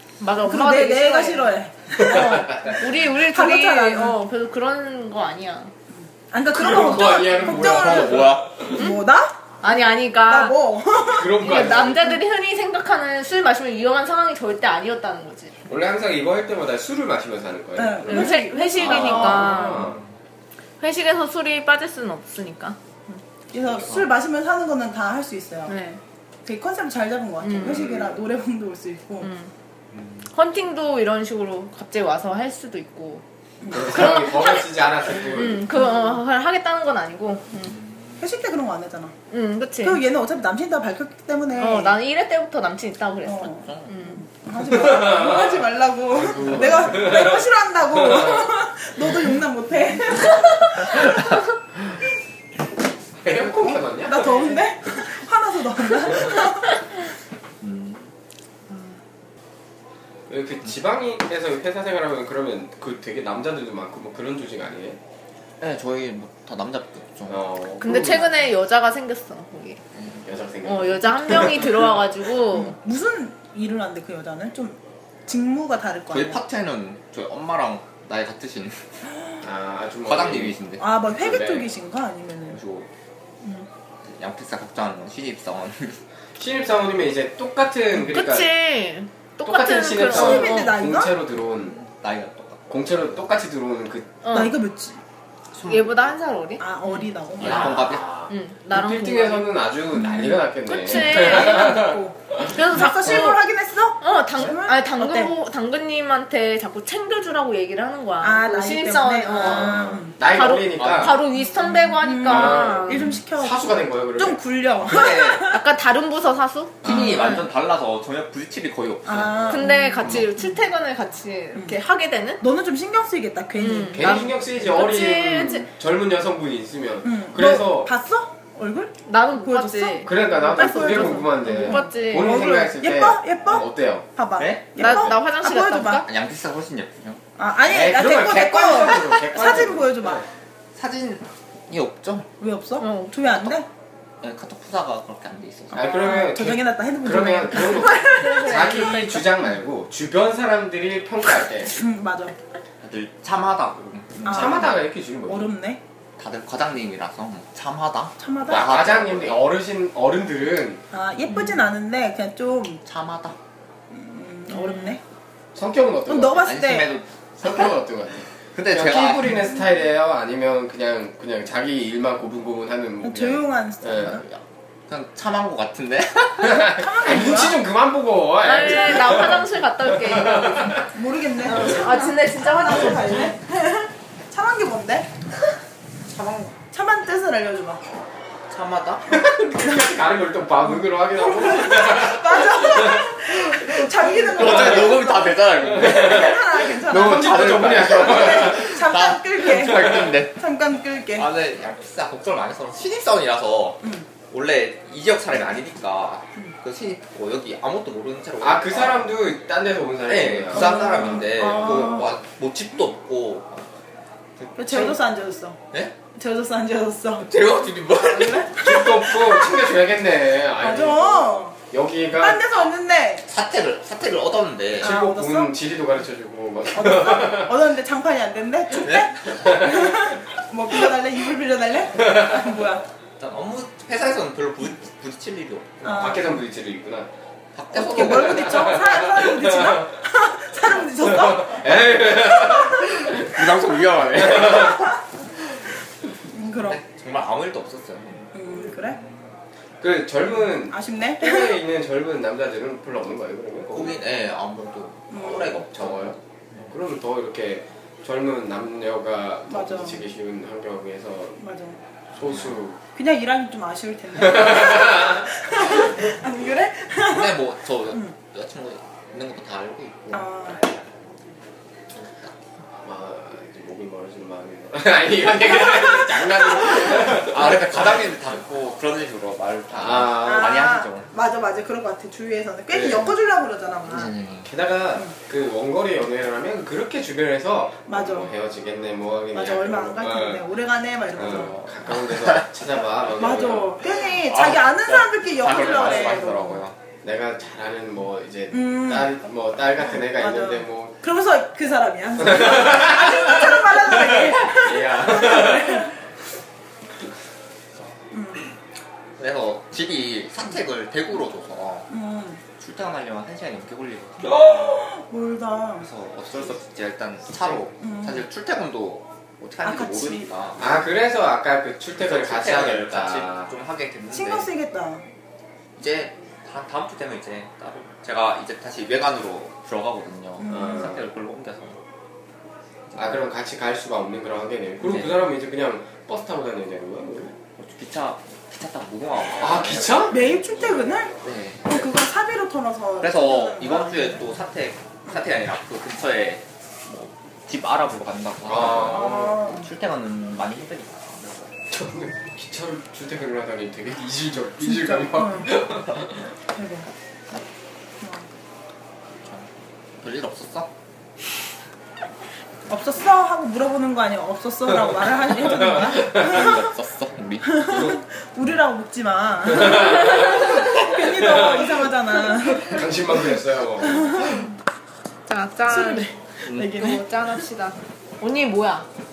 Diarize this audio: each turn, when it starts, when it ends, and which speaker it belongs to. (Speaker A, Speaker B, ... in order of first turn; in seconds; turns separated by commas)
Speaker A: 0.2-5.7, Speaker B: 0.4-4.2, Speaker C: 2.0-2.8, Speaker B: 5.9-9.4, Speaker C: 6.5-8.8, Speaker D: 7.1-8.6, Speaker A: 8.8-9.0, Speaker A: 9.6-10.6, Speaker B: 10.2-11.6, Speaker C: 11.1-12.2, Speaker A: 11.4-15.5, Speaker C: 15.7-20.0, Speaker B: 17.8-19.6, Speaker A: 18.1-20.0, Speaker A: 20.8-22.8, Speaker B: 23.5-25.7, Speaker A: 25.7-26.0, Speaker B: 26.4-29.3, Speaker A: 27.4-27.9, Speaker C: 27.6-28.2, Speaker A: 29.2-29.5, Speaker D: 29.9-30.2, Speaker A: 30.3-33.2, Speaker B: 33.6-33.9, Speaker C: 33.7-35.7, Speaker A: 33.8-37.8, Speaker D: 37.7-38.2, Speaker B: 38.2-39.1, Speaker A: 39.3-40.0, Speaker B: 39.8-42.0, Speaker A: 41.6-44.2, Speaker B: 43.2-51.2, Speaker C: 44.6-48.5, Speaker C: 53.2-54.6, Speaker B: 53.3-56.9, Speaker D: 57.6-58.1, Speaker A: 58.7-59.0, Speaker C: 60.3-65.0, Speaker D: 65.6-67.5, Speaker C: 67.3-68.4, Speaker A: 67.8-69.8, Speaker C: 70.2-71.9, Speaker A: 70.6-72.8, Speaker B: 72.5-76.4, Speaker D: 76.1-78.8, Speaker C: 79.4-81.7, Speaker D: 80.1-80.8, Speaker B: 80.8-82.6, Speaker D: 82.5-82.9, Speaker D: 84.0-86.0, Speaker C: 86.4-88.5, Speaker A: 88.0-90.7, Speaker C: 89.4-91.8, Speaker B: 90.0-91.2, Speaker D: 91.6-93.0, Speaker C: 92.7-94.2, Speaker A: 94.2-94.6, Speaker B: 94.3-95.0, Speaker D: 95.5-95.9, Speaker A: 95.6-97.1, Speaker B: 96.6-98.0, Speaker D: 97.4-98.2, Speaker C: 97.4-103.3, Speaker A: 98.3-99.6, Speaker B: 100.0-105.3, Speaker A: 100.6-102.0, Speaker A: 102.5-103.5, Speaker A: 104.0-113.2, Speaker B: 108.2-110.2, Speaker C: 109.3-111.2, Speaker D: 110.8-111.1, Speaker B: 111.3-115.6, Speaker C: 112.2-114.4, Speaker D: 114.8-115.5, Speaker A: 114.9-117.5, Speaker D: 116.8-119.6, Speaker C: 116.8-117.1, Speaker B: 119.0-120.5, Speaker A: 119.5-122.4, Speaker B: 122.4-124.3, Speaker A: 123.6-125.7, Speaker C: 123.9-127.9, Speaker B: 127.0-136.1, Speaker A: 129.1-132.5, Speaker C: 130.0-134.1, Speaker D: 134.4-135.0, Speaker A: 134.8-136.1, Speaker D: 136.0-137.2, Speaker B: 137.4-140.2, Speaker C: 137.6-140.2, Speaker D: 140.8-142.3, Speaker B: 142.4-143.7, Speaker A: 142.8-143.5, Speaker D: 144.2-146.1, Speaker C: 145.7-151.8, Speaker B: 145.8-148.6, Speaker A: 147.8-149.3, Speaker B: 151.8-152.4, Speaker D: 152.8-154.9, Speaker C: 154.2-155.5, Speaker B: 154.2-155.8, Speaker D: 156.2-159.5, Speaker B: 158.2-158.8, Speaker C: 158.5-160.8, Speaker B: 160.9-162.8, Speaker D: 162.8-163.4, Speaker B: 163.9-165.0, Speaker A: 164.5-165.0, Speaker C: 165.5-166.5, Speaker B: 166.1-167.0, Speaker D: 166.3-167.6, Speaker C: 167.4-174.2, Speaker D: 168.5-169.5, Speaker B: 173.0-174.2, Speaker D: 174.0-176.8, Speaker C: 176.4-180.9, Speaker B: 176.7-177.6, Speaker A: 178.4-180.8, Speaker B: 180.9-185.1, Speaker A: 181.4-183.3, Speaker D: 186.1-186.6, Speaker B: 186.7-187.8, Speaker D: 188.5-189.2, Speaker C: 189.1-195.1, Speaker B: 189.6-190.0, Speaker B: 190.7-201.3, Speaker D: 194.1-200.4, Speaker C: 195.6-198.8, Speaker D: 201.1-209.1, Speaker C: 208.4-212.0, Speaker D: 210.1-213.7, Speaker B: 210.5-212.2, Speaker D: 214.4-215.0, Speaker B: 214.6-215.6, Speaker B: 216.2-217.3, Speaker D: 217.2-218.7, Speaker B: 217.9-219.7, Speaker C: 218.5-222.4, Speaker B: 220.6-221.6, Speaker B: 222.2-223.2, Speaker D: 223.3-225.0, Speaker B: 224.8-225.6, Speaker C: 224.8-227.6, Speaker B: 226.7-232.8, Speaker D: 228.8-229.6, Speaker C: 229.4-230.1, Speaker C: 232.0-232.5, Speaker D: 233.2-236.1, Speaker C: 235.8-237.1, Speaker B: 235.8-236.4, Speaker D: 237.6-238.8, Speaker B: 237.7-241.8, Speaker C: 237.9-239.9, Speaker C: 241.0-244.9, Speaker B: 242.6-242.9, Speaker D: 243.2-245.0, Speaker B: 246.3-246.8, Speaker D: 246.6-248.7, Speaker B: 248.3-249.0, Speaker C: 249.8-254.0, Speaker B: 250.7-251.6, Speaker D: 253.7-256.7, Speaker B: 255.1-255.6, Speaker C: 255.2-256.2, Speaker C: 256.7-261.4, Speaker B: 259.5-260.1, Speaker B: 261.4-261.8, Speaker C: 262.1-262.8, Speaker B: 262.9-268.1, Speaker C: 264.2-265.7, Speaker D: 267.0-270.3, Speaker B: 270.1-270.7, Speaker D: 272.0-272.3, Speaker C: 272.8-278.1, Speaker B: 275.6-276.1, Speaker D: 276.9-281.1, Speaker C: 279.7-280.7, Speaker B: 280.2-284.1, Speaker C: 282.7-283.1, Speaker D: 283.9-284.5, Speaker C: 284.4-290.4, Speaker B: 287.9-288.3, Speaker B: 289.3-291.7, Speaker C: 291.1-293.8, Speaker D: 292.0-292.4, Speaker B: 293.2-296.6, Speaker D: 294.0-296.8, Speaker C: 295.5-296.2, Speaker C: 297.0-301.0, Speaker B: 298.5-299.3, Speaker B: 300.0-305.9, Speaker C: 302.2-305.9, Speaker B: 308.1-308.5, Speaker D: 309.2-311.9, Speaker B: 311.9-312.4, Speaker D: 312.6-314.6, Speaker B: 314.4-315.9, Speaker D: 315.8-320.8, Speaker B: 317.8-318.2, Speaker B: 319.6-320.3, Speaker C: 320.6-323.5, Speaker D: 322.0-324.5, Speaker B: 324.1-325.0, Speaker D: 325.8-331.8, Speaker B: 330.4-330.9, Speaker C: 330.5-331.0, Speaker C: 332.9-337.4, Speaker D: 334.8-335.2, Speaker D: 337.6-340.4, Speaker C: 339.4-340.8, Speaker B: 340.1-344.3, Speaker D: 341.2-341.9, Speaker D: 343.0-351.5, Speaker C: 348.4-349.4, Speaker B: 348.9-349.7, Speaker C: 351.7-356.2, Speaker B: 354.6-355.5, Speaker B: 356.5-356.9, Speaker B: 358.0-358.3, Speaker D: 359.2-360.7, Speaker B: 362.7-366.7, Speaker C: 365.4-366.5, Speaker D: 366.0-367.8, Speaker B: 367.4-374.5, Speaker C: 367.7-368.0, Speaker C: 369.5-371.9, Speaker C: 372.6-374.4, Speaker A: 375.3-378.9, Speaker B: 375.7-377.3